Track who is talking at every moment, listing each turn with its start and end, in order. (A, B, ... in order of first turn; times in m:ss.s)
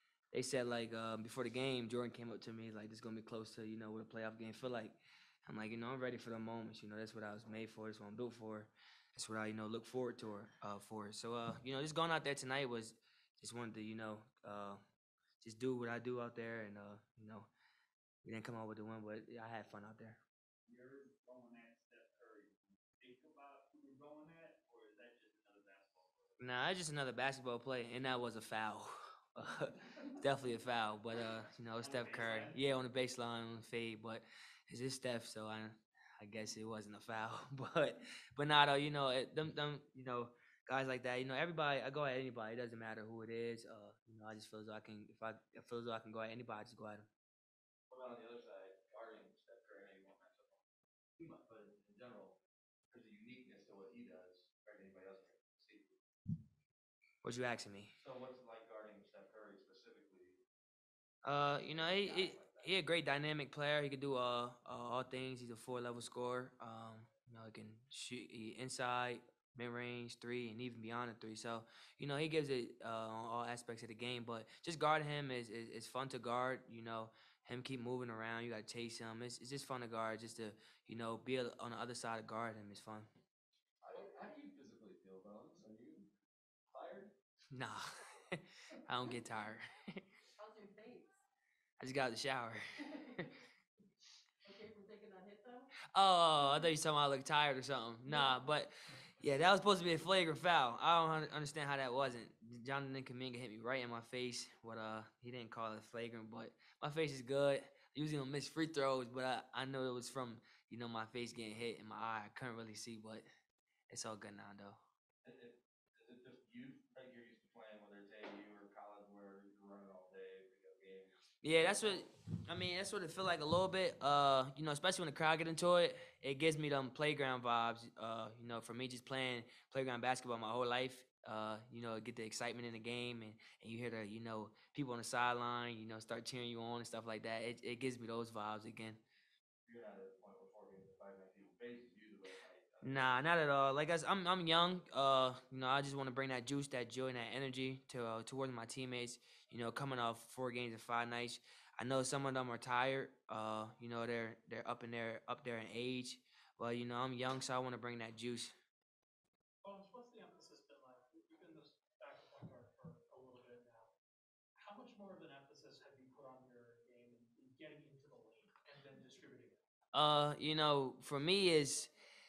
0:00.3-0:14.8 A
0:15.4-0:17.5 A
0:18.2-0:20.2 A
0:20.6-0:26.4 B
0:26.4-0:47.1 A
0:31.8-0:32.6 B
0:47.9-0:50.6 C
0:51.2-0:52.4 C
0:52.9-0:55.9 C
0:57.2-0:57.9 A
0:58.0-1:00.4 C
1:01.2-1:23.1 A
1:01.8-1:02.7 C
1:23.8-1:26.1 C
1:26.7-1:27.1 C
1:27.5-1:30.0 A
1:30.4-1:31.2 D
1:31.8-1:32.6 A
1:32.8-1:33.3 D
1:34.4-1:35.7 D
1:35.9-1:53.2 A
1:38.1-1:38.5 D
1:53.9-1:54.8 A
1:55.2-2:02.0 C
2:01.4-2:19.0 A
2:19.7-2:22.1 C
2:22.8-2:38.5 A
2:39.6-2:43.9 E
2:44.6-2:49.6 E
2:49.9-2:51.9 A